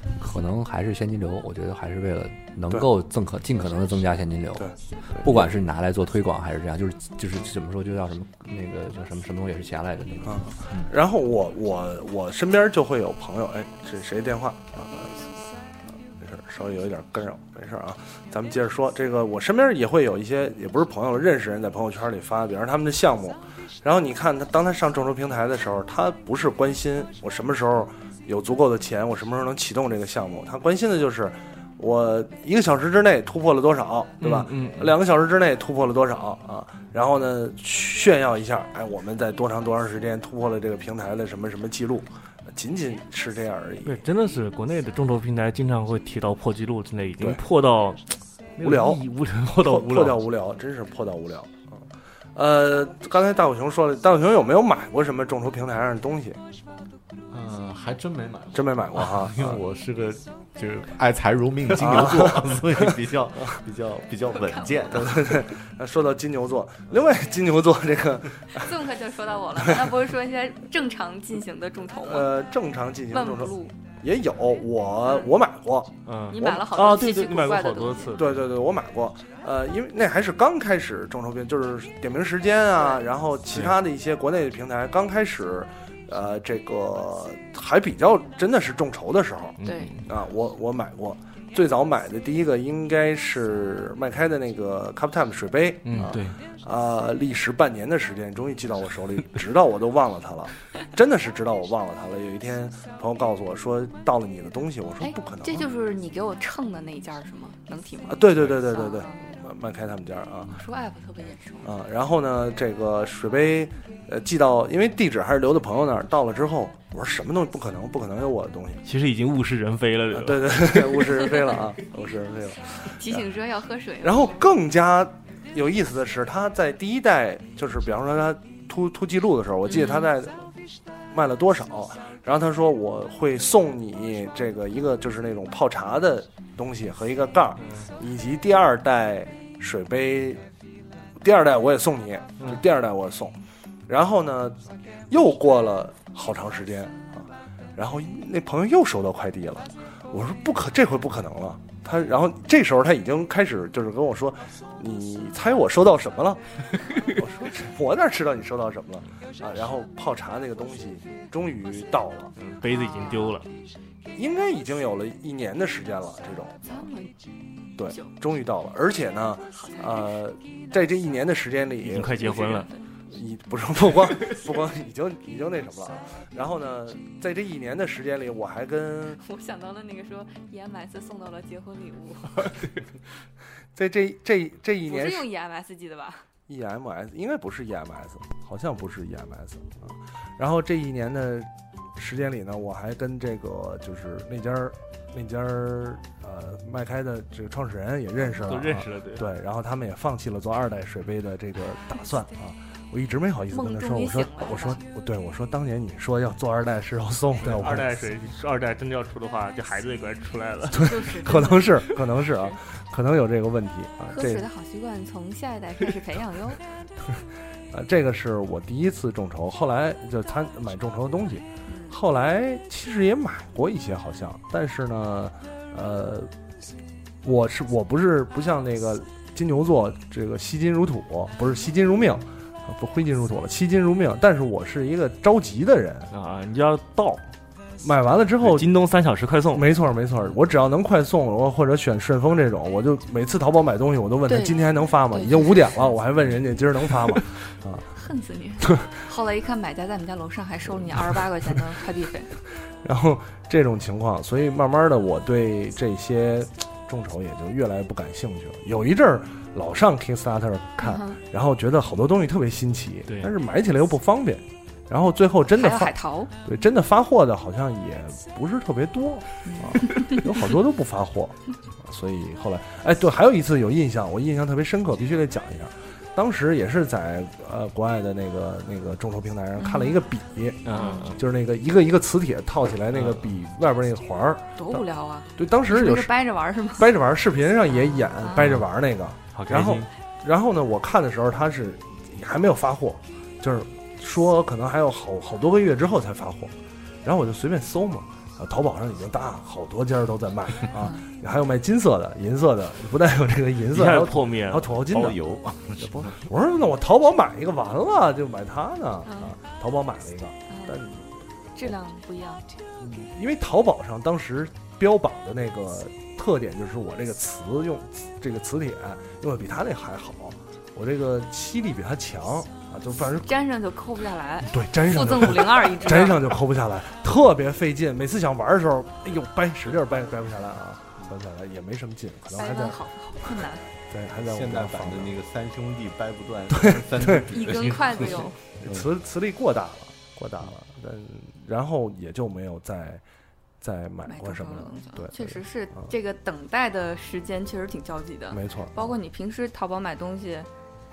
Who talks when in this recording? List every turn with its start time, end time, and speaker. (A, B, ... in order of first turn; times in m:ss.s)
0:00.2-0:04.7 A
0:04.6-0:05.5 B
0:05.2-0:10.4 A
0:10.3-0:15.3 B
0:16.2-0:44.0 B
0:34.2-0:35.0 C
0:43.8-0:50.2 C
0:48.6-0:49.0 B
0:49.6-0:51.8 B
0:52.4-0:56.4 B
0:57.3-1:05.4 D
0:58.5-0:59.6 B
1:01.7-1:03.0 B
1:04.4-1:04.8 E
1:04.9-1:08.7 B
1:08.6-1:12.3 E
1:12.0-1:16.7 B
1:13.1-1:13.7 E
1:16.1-1:18.4 C
1:16.3-1:18.2 E
1:18.2-1:45.7 B
1:22.8-1:23.0 E
1:29.6-1:30.0 C
1:29.6-1:29.9 E
1:35.9-1:36.4 C
1:45.0-1:49.3 E
1:48.1-1:50.6 B
1:50.5-1:51.7 E
1:51.6-1:58.8 B
1:58.8-2:01.3 C
2:00.1-2:03.3 B
2:02.9-2:04.4 E
2:04.0-2:10.4 B
2:09.7-2:10.1 E
2:11.1-2:20.4 B
2:17.6-2:17.9 C
2:21.2-2:23.4 B
2:23.9-2:42.3 B
2:42.4-2:43.5 C
2:42.7-2:43.4 E
2:44.2-2:46.6 B
2:46.6-2:47.2 E
2:47.8-2:52.5 B
2:49.6-2:50.1 E
2:51.8-2:52.7 C
2:52.4-2:52.8 E
2:53.1-2:59.2 B
2:59.2-3:02.5 E
3:03.8-3:05.3 B
3:04.9-3:06.2 E
3:06.5-3:27.9 B
3:18.3-3:19.2 C
3:23.5-3:24.8 E
3:27.4-3:31.4 C
3:30.7-3:34.5 B
3:30.8-3:31.7 E
3:34.1-3:36.6 E
3:37.7-3:46.3 B
3:41.7-3:42.0 E
3:47.2-3:56.1 B
3:56.1-3:57.2 C
3:57.8-3:58.7 B
3:58.4-3:59.7 C
3:59.5-4:07.9 B
4:04.3-4:04.6 E
4:05.1-4:05.7 E
4:07.9-4:12.3 E
4:12.8-4:44.8 B
4:20.8-4:21.2 E
4:25.6-4:26.3 E
4:29.5-4:30.2 E
4:39.6-4:40.0 E
4:40.7-4:41.2 C
4:40.8-4:41.1 E
4:42.9-4:43.3 C
4:44.6-4:46.9 E
4:45.4-4:46.2 B
4:46.8-4:56.5 B
4:47.7-4:48.5 E
4:48.4-4:48.6 C
4:49.3-4:49.9 C
4:57.0-5:05.2 B
5:03.7-5:04.9 C
5:04.9-5:06.2 D
5:05.8-5:11.0 B
5:09.1-5:09.4 E
5:10.5-5:10.8 E
5:11.6-5:12.4 E
5:12.8-5:23.3 B
5:23.3-5:26.3 E
5:24.5-5:35.1 B
5:32.4-5:33.7 E
5:34.1-5:38.9 D
5:36.5-5:37.3 B
5:37.3-5:38.4 E
5:38.6-5:43.0 B
5:43.6-5:45.9 B
5:44.1-5:50.5 E
5:48.3-5:48.9 B